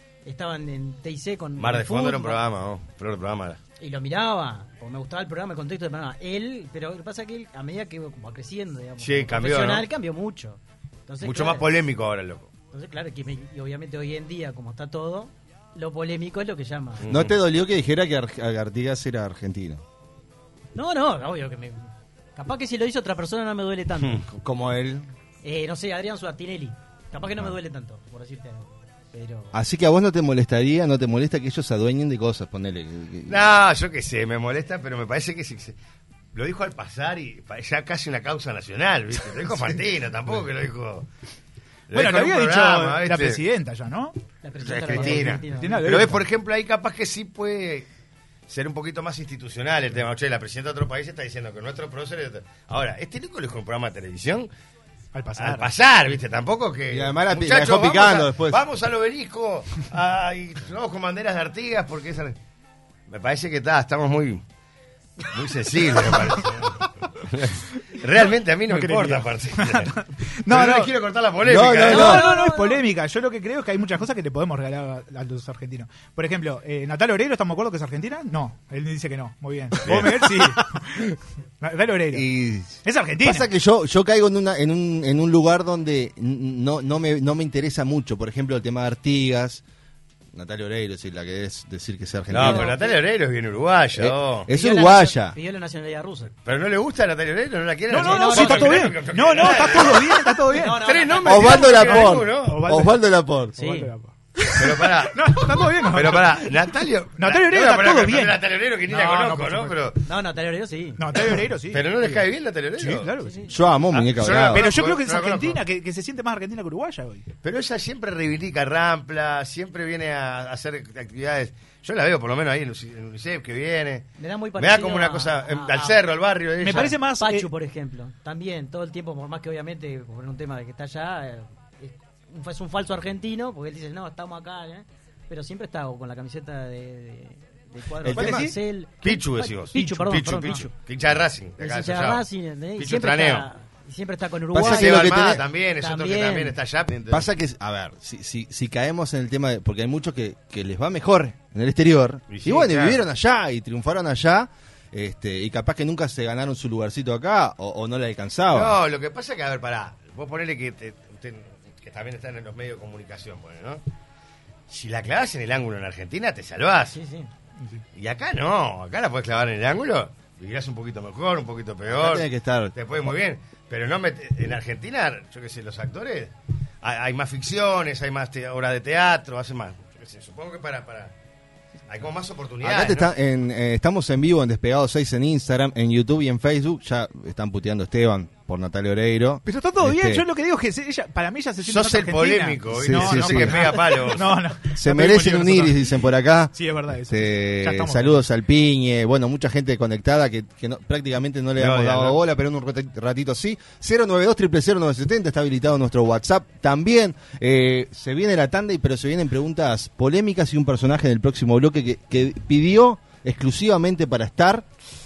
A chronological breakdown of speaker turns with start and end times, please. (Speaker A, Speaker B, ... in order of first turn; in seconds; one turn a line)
Speaker A: 0.2-2.4
Speaker B: 1.6-3.6
Speaker A: 3.8-11.7
Speaker B: 9.0-9.9
Speaker B: 11.2-12.5
Speaker A: 12.7-17.1
Speaker B: 17.0-17.4
Speaker C: 17.1-19.8
Speaker A: 20.8-24.2
Speaker C: 24.3-25.1
Speaker A: 25.4-29.6
Speaker C: 29.5-33.5
Speaker B: 33.3-35.8
Speaker B: 36.3-41.1
Speaker B: 41.9-43.4
Speaker D: 41.9-44.2
Speaker A: 44.4-45.9
Speaker B: 44.6-47.9
Speaker D: 44.9-46.2
Speaker B: 48.5-54.5
Speaker D: 55.1-55.7
Speaker B: 55.4-62.4
Speaker C: 56.9-58.6
Speaker B: 63.1-64.4
Speaker B: 65.3-69.9
Speaker D: 68.7-70.9
Speaker B: 70.5-72.2
Speaker C: 71.4-72.3
Speaker A: 71.8-72.8
Speaker D: 71.9-82.3
Speaker B: 79.9-80.2
Speaker C: 82.1-89.6
Speaker D: 82.8-83.5
Speaker C: 90.3-92.7
Speaker B: 92.3-94.5
Speaker A: 92.4-93.0
Speaker C: 94.0-95.4
Speaker A: 94.5-96.3
Speaker B: 96.5-102.6
Speaker D: 97.9-100.9
Speaker A: 98.0-99.8
Speaker A: 100.5-102.0
Speaker C: 101.2-103.6
Speaker D: 101.7-103.0
Speaker A: 103.6-103.9
Speaker D: 103.6-106.6
Speaker B: 104.5-110.0
Speaker D: 107.2-109.8
Speaker A: 110.0-111.0
Speaker D: 111.0-113.5
Speaker B: 111.7-113.1
Speaker A: 113.2-113.6
Speaker C: 113.5-114.7
Speaker B: 113.9-115.6
Speaker D: 114.4-117.3
Speaker B: 117.4-127.0
Speaker A: 124.2-126.0
Speaker D: 126.6-127.5
Speaker A: 126.7-140.8
Speaker C: 138.0-138.5
Speaker D: 138.2-138.6
Speaker B: 139.0-143.5
Speaker D: 139.7-140.1
Speaker A: 141.6-146.6
Speaker C: 144.5-145.4
Speaker B: 144.6-147.3
Speaker C: 147.1-158.8
Speaker B: 152.3-153.0
Speaker B: 158.5-163.8
Speaker B: 164.7-167.0
Speaker A: 166.9-167.3
Speaker B: 167.9-181.1
Speaker C: 171.9-173.1
Speaker B: 181.9-183.1
Speaker C: 182.6-190.2
Speaker D: 189.4-196.0
Speaker B: 191.6-194.4
Speaker C: 192.7-193.7
Speaker C: 194.7-214.7
Speaker D: 196.5-198.2
Speaker B: 201.6-202.2